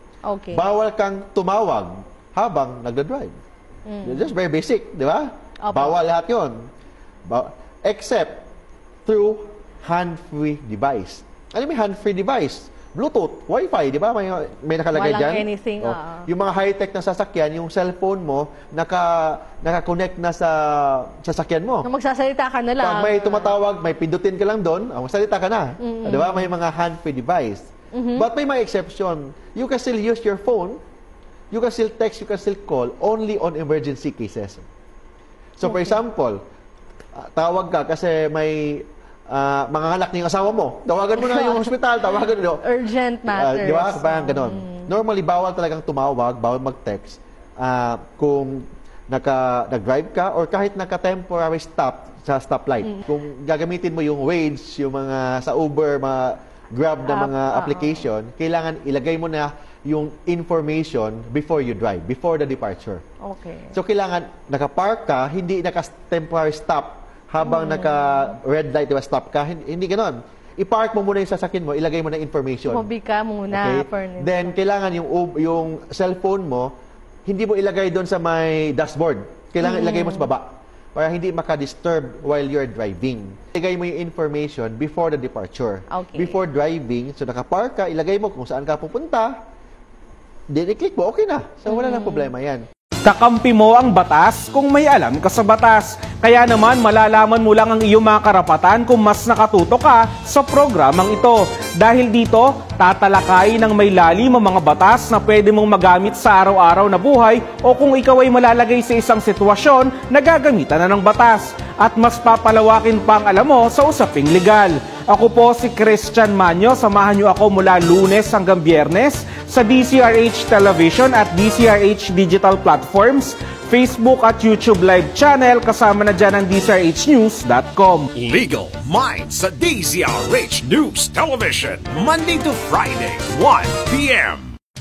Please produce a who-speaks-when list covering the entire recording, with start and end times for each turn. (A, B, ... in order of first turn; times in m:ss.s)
0:00.2-0:00.6 A
0:00.5-0:03.3 B
0:03.9-0:04.3 A
0:04.0-0:06.6 B
0:05.6-0:05.9 A
0:07.3-0:08.4 B
0:09.0-0:21.9 B
0:14.9-0:16.2 A
0:21.8-0:23.5 A
0:22.8-0:30.8 B
0:25.8-0:26.5 A
0:27.9-0:28.2 A
0:31.5-0:34.6 B
0:35.6-0:36.4 B
0:35.7-0:35.9 A
0:37.2-0:42.6 B
0:41.2-0:41.7 A
0:42.6-0:44.9 A
0:43.3-1:03.0 B
0:57.1-0:58.0 A
1:03.2-1:03.7 A
1:03.7-1:12.9 B
1:07.4-1:07.9 A
1:12.7-1:14.5 A
1:13.5-1:16.7 B
1:17.2-1:29.3 B
1:19.6-1:20.3 A
1:25.9-1:26.4 A
1:30.5-1:32.6 B
1:31.8-1:32.2 A
1:33.0-2:08.1 C
2:08.1-2:14.5 D